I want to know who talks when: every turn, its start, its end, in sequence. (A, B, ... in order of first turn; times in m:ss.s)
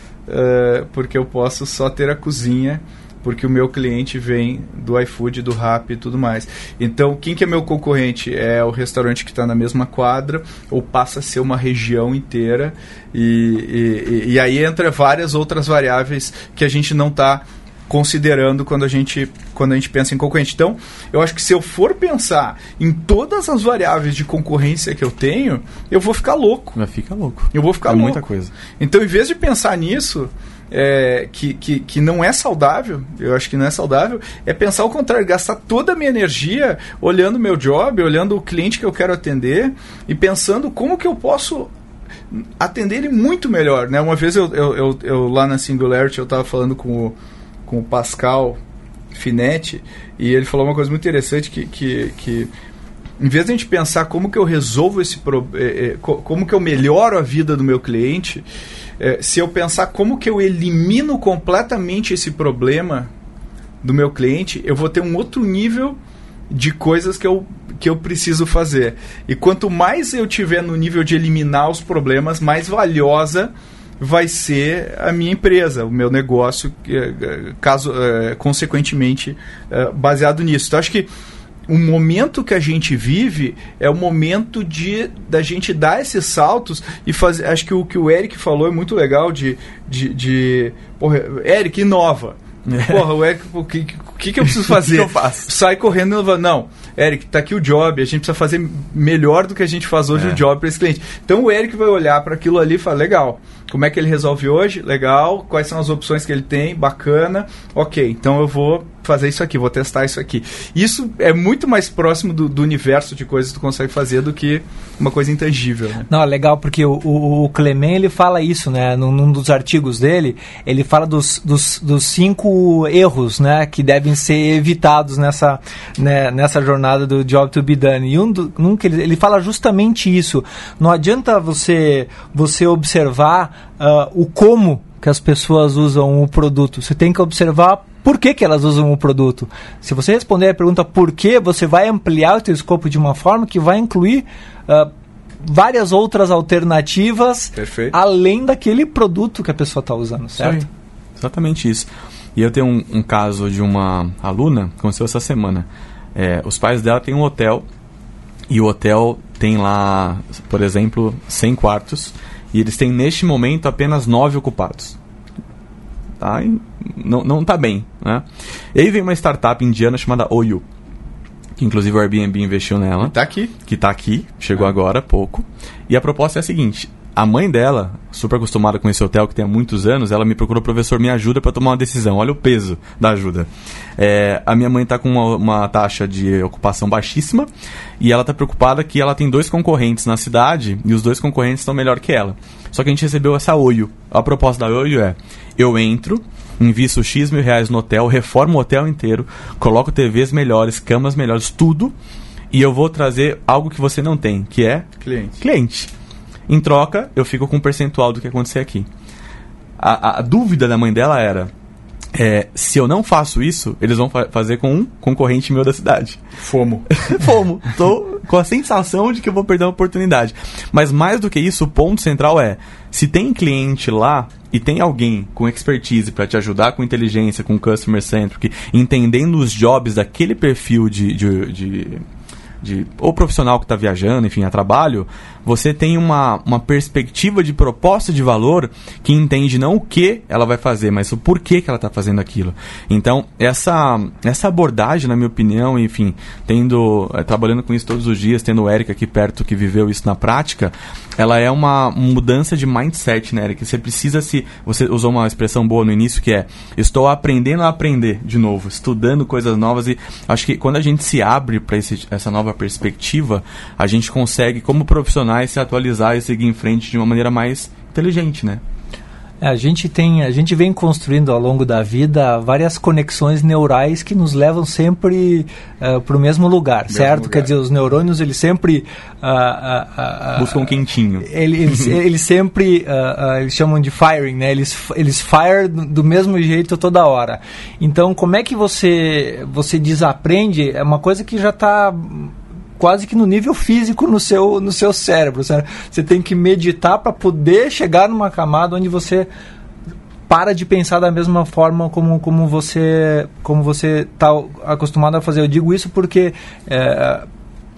0:00.3-0:26.8 A
0:26.8-0:28.5 B
0:27.5-0:28.2 A
0:28.8-0:41.7 A
0:42.3-0:48.6 A
0:49.1-0:52.5 A
0:53.2-0:58.4 A
0:59.0-1:03.1 A
1:03.8-1:06.0 A
1:06.5-1:21.1 A
1:21.7-1:56.1 A
1:32.7-1:33.0 B
1:34.4-1:35.5 B
1:40.1-1:40.4 B
1:56.1-2:24.9 C
2:25.4-2:30.7 C
2:27.6-2:27.9 A
2:31.2-2:37.6 B
2:38.5-2:45.0 B
2:46.2-2:50.6 B
2:51.6-2:53.1 B
2:53.0-2:53.5 A
2:53.6-3:07.5 B
3:08.0-3:21.9 B
3:22.5-3:25.9 B
3:25.0-3:25.4 A
3:26.5-3:28.9 B
3:29.8-3:31.5 B
3:32.1-3:36.2 B
3:36.4-3:36.9 A
3:36.9-3:52.0 B
3:52.6-4:28.6 B
4:29.4-4:59.3 C
4:36.9-4:37.5 A
4:40.4-4:41.3 B
5:00.3-5:07.2 C